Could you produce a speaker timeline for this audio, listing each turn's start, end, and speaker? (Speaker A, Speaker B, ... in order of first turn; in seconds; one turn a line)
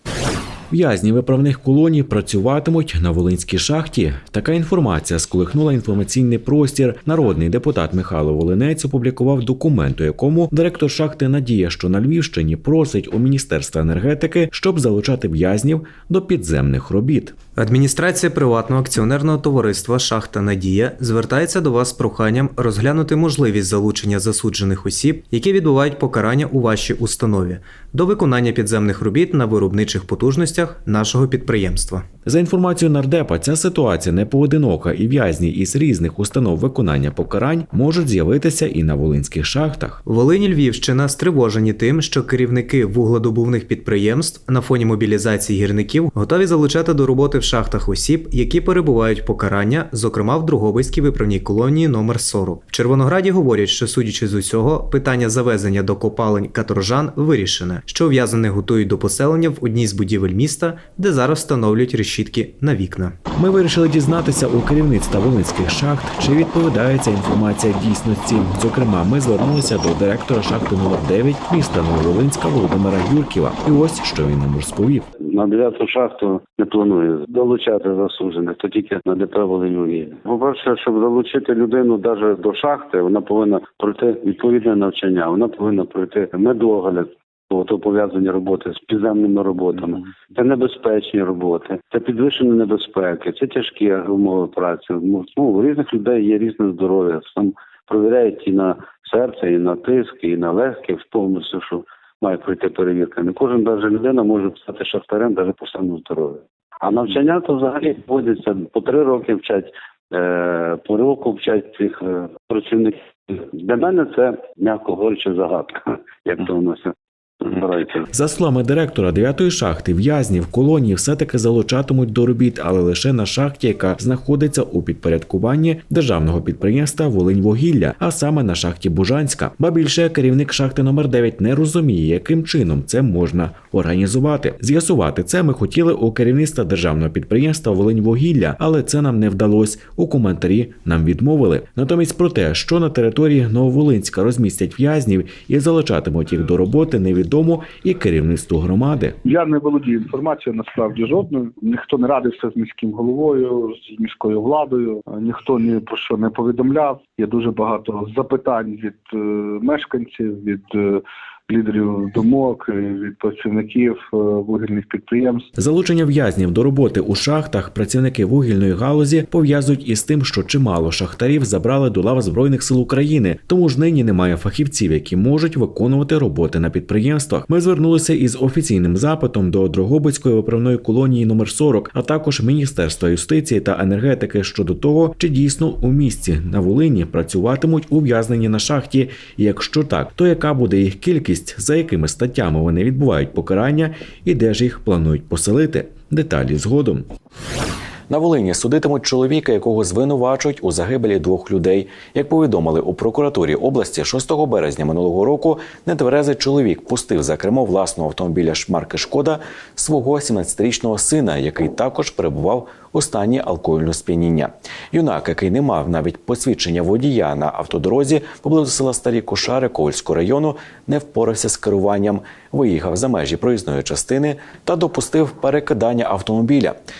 Speaker A: 0.7-17.4
Speaker B: 17.6-32.0
Speaker A: 32.2-40.0
Speaker B: 40.0-63.2
Speaker A: 63.4-75.1
Speaker C: 75.2-118.0
Speaker A: 118.1-149.2
Speaker D: 149.2-165.5
Speaker A: 165.6-197.1
Speaker A: 198.1-226.8